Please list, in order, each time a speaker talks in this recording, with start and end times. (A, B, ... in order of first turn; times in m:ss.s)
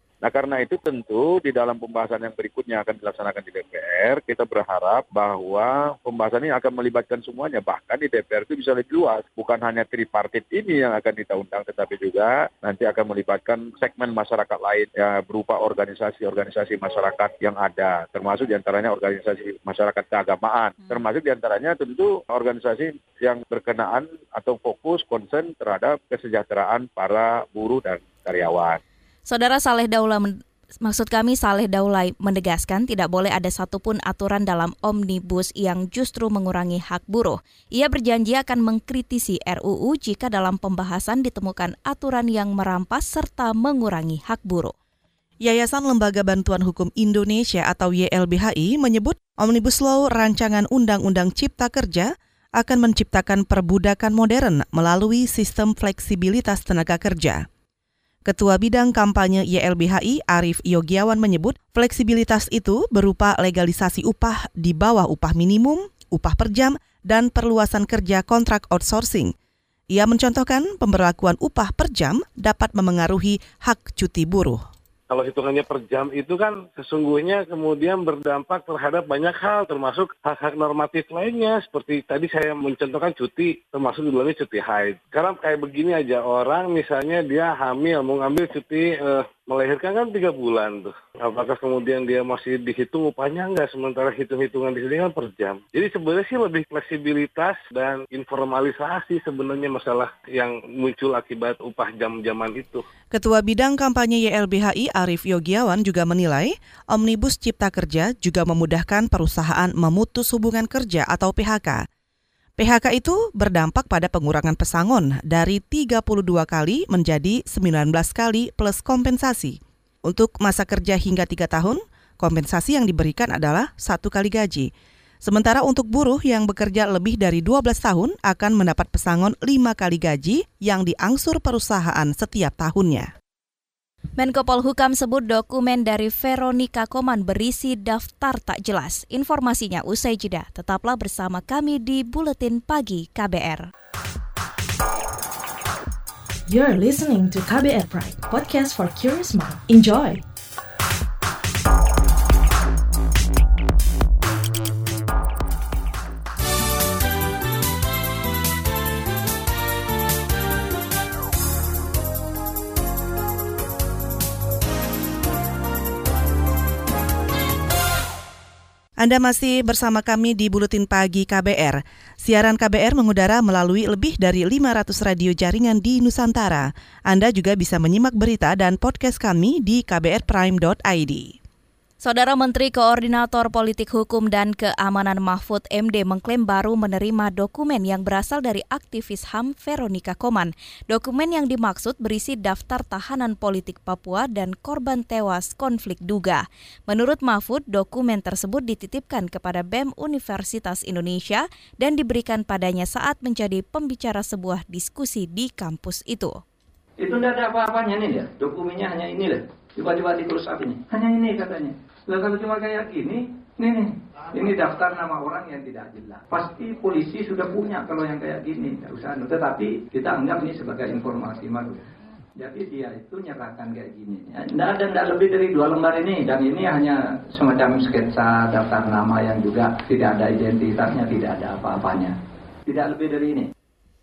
0:00.2-0:28.8 A
0:29.3-0:44.7 B
0:45.4-0:57.5 C
0:58.3-1:09.3 C
1:09.9-1:14.6 C
1:15.1-1:42.8 D
1:43.1-1:51.9 C
1:52.6-2:04.7 C
2:05.2-2:13.1 C
2:14.2-2:23.7 B
2:26.5-2:30.2 E
2:49.0-3:01.4 C
3:02.0-3:26.4 B
3:27.0-3:41.8 F
3:42.4-3:52.2 F
3:52.7-3:53.5 F